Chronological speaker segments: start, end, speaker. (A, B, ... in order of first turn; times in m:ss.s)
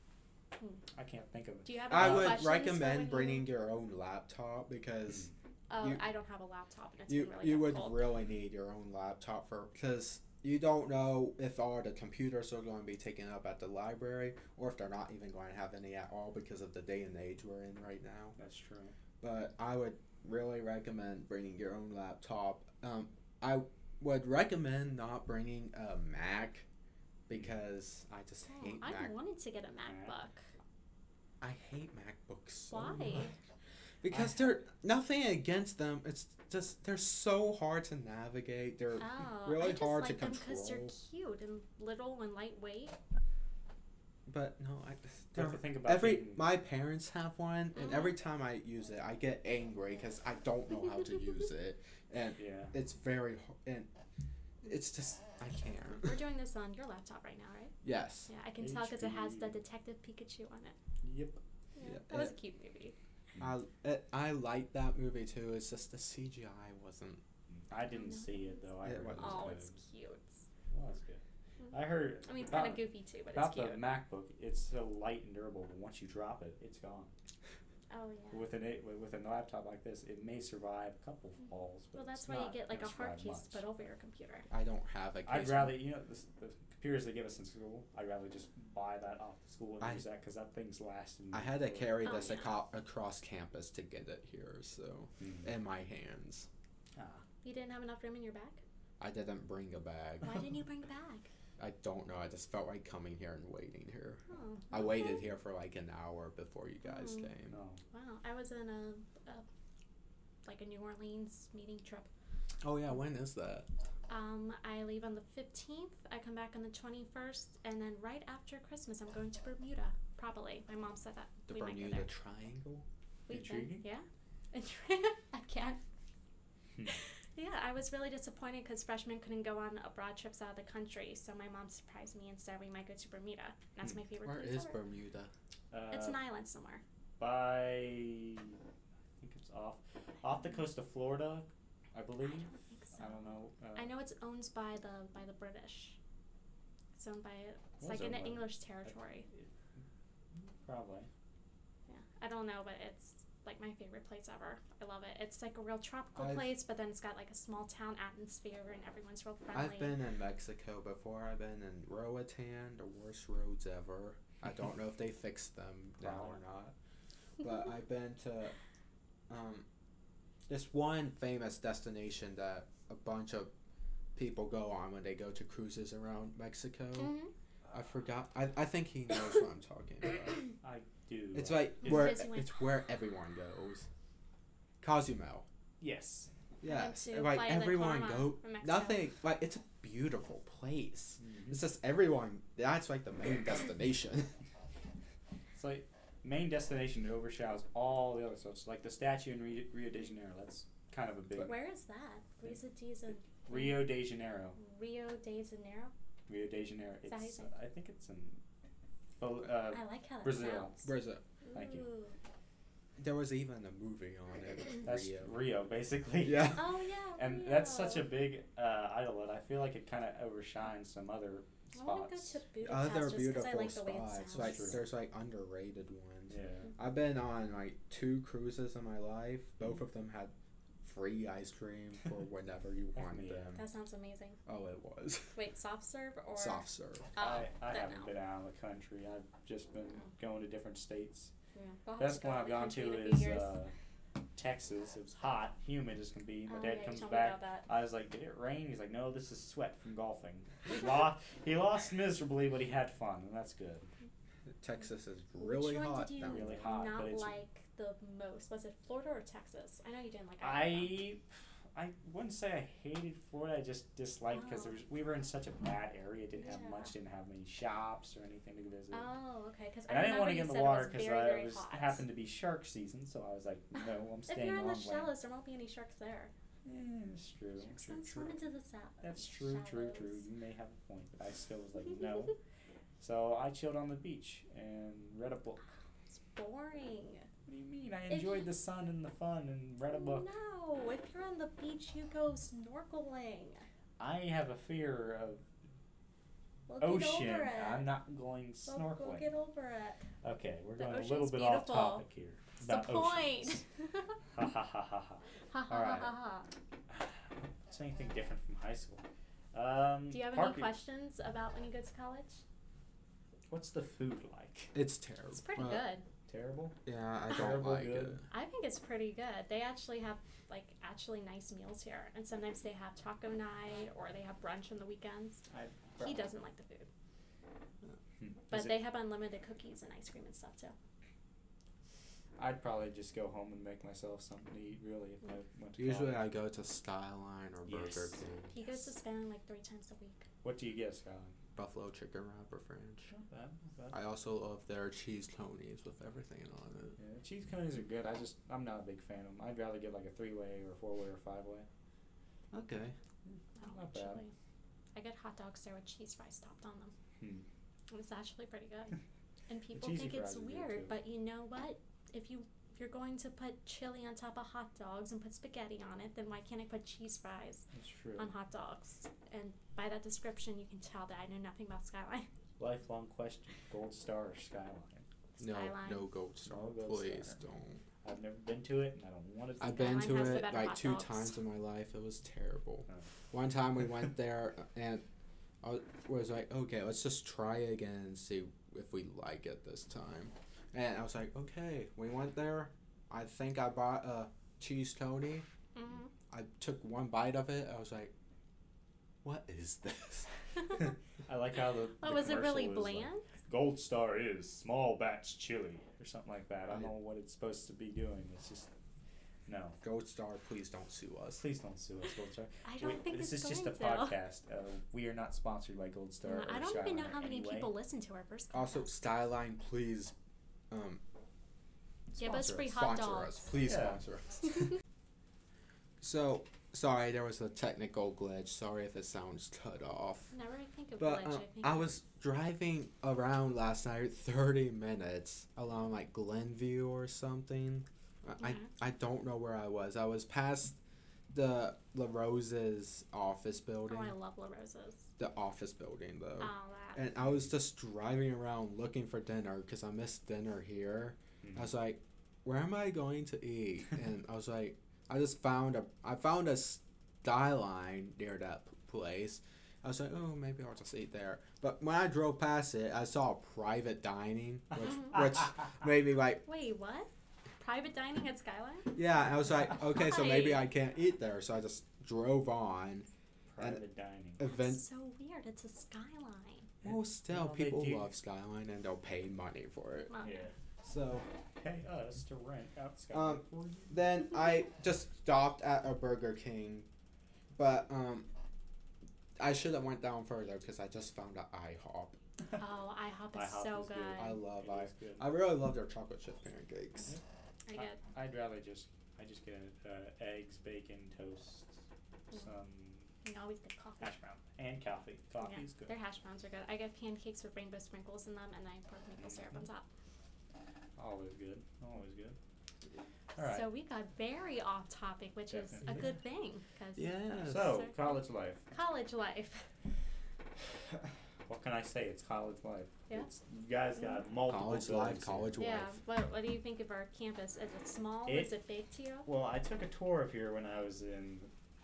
0:00.9-0:02.4 A
0:01.6-0:03.5 B
0:01.9-0:06.0 C
0:05.7-0:08.1 B
0:07.1-0:18.4 C
0:18.4-0:18.9 A
0:19.2-0:26.6 C
0:27.3-0:29.2 C
0:27.3-0:27.6 A
0:28.5-0:30.4 B
0:29.9-0:30.1 A
0:31.4-0:33.3 C
0:32.7-0:33.3 B
0:34.0-0:40.9 C
0:34.1-0:34.5 A
0:39.0-0:43.0 B
0:44.3-0:53.9 C
0:45.3-0:46.5 A
0:47.7-0:48.2 B
0:52.4-0:52.7 A
0:54.6-0:56.1 C
0:56.0-0:57.7 B
0:57.8-0:58.3 C
0:58.3-1:00.8 B
0:58.6-0:59.6 A
1:01.0-1:01.4 A
1:01.7-1:02.9 B
1:01.8-1:02.3 C
1:03.4-1:07.2 C
1:07.5-1:09.8 A
1:07.8-1:08.6 B
1:08.8-1:09.6 C
1:09.2-1:10.4 B
1:10.7-1:17.1 A
1:11.6-1:13.8 B
1:17.9-1:18.5 B
1:18.3-1:23.6 A
1:21.9-1:24.5 B
1:24.5-1:25.8 C
1:25.2-1:32.0 A
1:29.8-1:30.0 C
1:31.3-1:36.5 C
1:32.0-1:32.6 B
1:35.2-1:35.5 A
1:37.0-1:37.2 A
1:37.4-1:38.6 B
1:39.0-1:40.5 C
1:40.2-1:41.3 B
1:41.6-1:47.6 C
1:44.3-1:45.2 B
1:46.8-1:47.3 B
1:47.5-1:47.8 A
1:47.9-1:49.4 B
1:50.4-1:52.1 B
1:52.6-1:53.7 C
1:54.1-2:02.1 B
2:01.5-2:02.8 C
2:03.3-2:05.8 B
2:03.3-2:03.8 A
2:06.8-2:14.8 B
2:14.2-2:15.3 C
2:15.7-2:16.2 A
2:15.9-2:16.8 B
2:17.2-2:18.6 A
2:19.2-2:23.9 A
2:22.2-2:26.0 B
2:27.0-2:29.2 B
2:27.8-2:29.5 A
2:30.3-2:31.1 A
2:31.9-2:40.0 B
2:36.2-2:36.5 C
2:39.5-2:46.7 C
2:46.0-2:46.4 A
2:47.4-2:48.6 C
2:49.3-2:49.6 C
2:50.5-2:53.5 C
2:54.1-2:57.1 C
2:57.0-2:57.3 B
2:57.7-3:00.5 C
3:00.6-3:02.2 A
3:01.3-3:03.9 C
3:01.8-3:02.5 B
3:04.8-3:05.4 C
3:05.8-3:06.3 A
3:06.6-3:14.3 C
3:06.6-3:09.0 B
3:11.2-3:11.6 A
3:15.6-3:21.6 A
3:21.4-3:24.0 B
3:23.2-3:24.6 A
3:24.6-3:25.9 B
3:26.3-3:28.4 A
3:27.0-3:27.5 B
3:29.2-3:30.8 A
3:29.7-3:30.9 B
3:30.8-3:31.2 C
3:31.4-3:32.2 B
3:31.5-3:31.9 A
3:33.0-3:35.3 C
3:34.8-3:36.6 A
3:36.2-3:36.6 C
3:36.5-3:38.1 B
3:37.2-3:42.4 A
3:41.7-3:44.8 B
3:42.6-3:53.6 C
3:44.3-3:44.9 A
3:46.3-3:46.7 A
3:52.9-3:53.6 A
3:53.5-3:54.4 B
3:54.4-3:55.4 C
3:55.3-3:58.1 B
3:56.3-3:57.1 C
3:57.2-4:01.3 A
4:01.5-4:03.5 B
4:02.0-4:03.7 A
4:04.3-4:13.8 A
4:06.5-4:07.7 B
4:14.6-4:16.6 C
4:15.4-4:21.0 B
4:16.2-4:17.4 A
4:20.4-4:29.1 A
4:24.3-4:24.8 B
4:26.4-4:26.9 B
4:28.9-4:32.0 B
4:29.9-4:35.2 A
4:34.3-4:36.3 B
4:36.6-4:38.3 A
4:37.7-4:40.2 B
4:39.0-4:42.4 A
4:43.0-4:45.7 A
4:46.1-4:47.3 B
4:47.4-4:50.3 A
4:48.1-4:48.4 B
4:49.9-4:53.6 B
4:54.0-4:55.4 A
4:56.7-4:57.9 B
4:56.8-4:59.3 A
4:58.6-5:00.0 B
5:00.2-5:03.6 A
5:00.8-5:02.0 B
5:02.6-5:04.2 B
5:04.3-5:06.1 A
5:05.5-5:06.5 B
5:06.9-5:10.7 A
5:10.1-5:12.4 B
5:13.5-5:14.7 A
5:14.7-5:15.9 C
5:15.3-5:16.0 B
5:16.3-5:16.8 A
5:16.8-5:18.2 C
5:17.3-5:18.2 A
5:18.3-5:25.4 B
5:25.5-5:26.3 A
5:26.0-5:26.9 B
5:28.2-5:28.8 A
5:28.5-5:30.7 B
5:32.4-5:36.2 A
5:35.8-5:38.9 C
5:37.6-5:38.2 A
5:38.5-5:40.2 B
5:40.4-5:41.4 A
5:41.6-5:43.1 C
5:43.1-5:44.0 A
5:43.9-5:47.0 C
5:47.0-5:51.7 A
5:52.5-5:53.0 C
5:53.6-5:54.3 B
5:53.6-5:54.2 A
5:54.9-5:56.9 B
5:57.2-5:57.4 A
5:57.9-5:59.0 B
5:59.5-6:07.6 B
5:59.7-6:00.9 A
6:07.7-6:08.3 A
6:08.2-6:12.3 B
6:12.6-6:15.0 A
6:15.4-6:16.0 B
6:15.4-6:17.8 C
6:16.4-6:17.4 A
6:18.0-6:20.4 A
6:19.6-6:25.0 C
6:19.6-6:21.4 B
6:25.6-6:35.4 C
6:35.7-6:36.1 B
6:36.3-6:38.1 C
6:39.2-6:40.3 C
6:41.3-6:48.7 A
6:42.0-6:43.2 B
6:49.4-6:49.8 A
6:49.8-6:51.4 C
6:51.4-6:57.7 A
6:52.6-6:54.2 B
6:56.2-6:58.9 B
6:58.5-7:00.1 C
7:00.7-7:01.0 C
7:02.2-7:03.5 B
7:02.2-7:04.7 C
7:03.6-7:04.0 A
7:06.0-7:10.3 C
7:10.3-7:11.9 B
7:11.0-7:20.8 C
7:18.4-7:18.7 B
7:21.3-7:24.1 C
7:23.9-7:25.1 B
7:25.2-7:46.4 C
7:26.4-7:27.0 B
7:31.4-7:31.7 A
7:44.8-7:45.1 B
7:46.4-7:49.0 B
7:48.9-7:53.1 C
7:49.8-7:50.7 B
7:53.5-7:54.4 A
7:54.4-7:54.8 C
7:54.4-7:56.7 B
7:56.8-7:58.1 A
7:56.8-8:00.1 C
8:00.1-8:00.5 B
8:00.2-8:00.5 A
8:00.8-8:01.3 C
8:01.6-8:04.0 A
8:03.1-8:06.9 C
8:07.6-8:08.3 C
8:09.4-8:12.2 C
8:12.6-8:14.4 B
8:13.3-8:15.3 A
8:14.2-8:17.2 C
8:17.7-8:18.0 B
8:17.8-8:21.8 A
8:22.3-8:23.1 A
8:23.2-8:24.2 B
8:24.0-8:25.9 A
8:25.4-8:29.9 B
8:29.2-8:29.6 A
8:31.0-8:32.4 A
8:33.4-8:33.7 A
8:33.4-8:38.2 B
8:35.5-8:36.1 A
8:37.0-8:37.8 C
8:37.4-8:38.7 A
8:38.7-8:39.6 B
8:41.5-8:45.5 A
8:44.4-8:46.0 C
8:45.6-8:49.3 B
8:48.2-8:48.5 A
8:49.2-8:51.5 A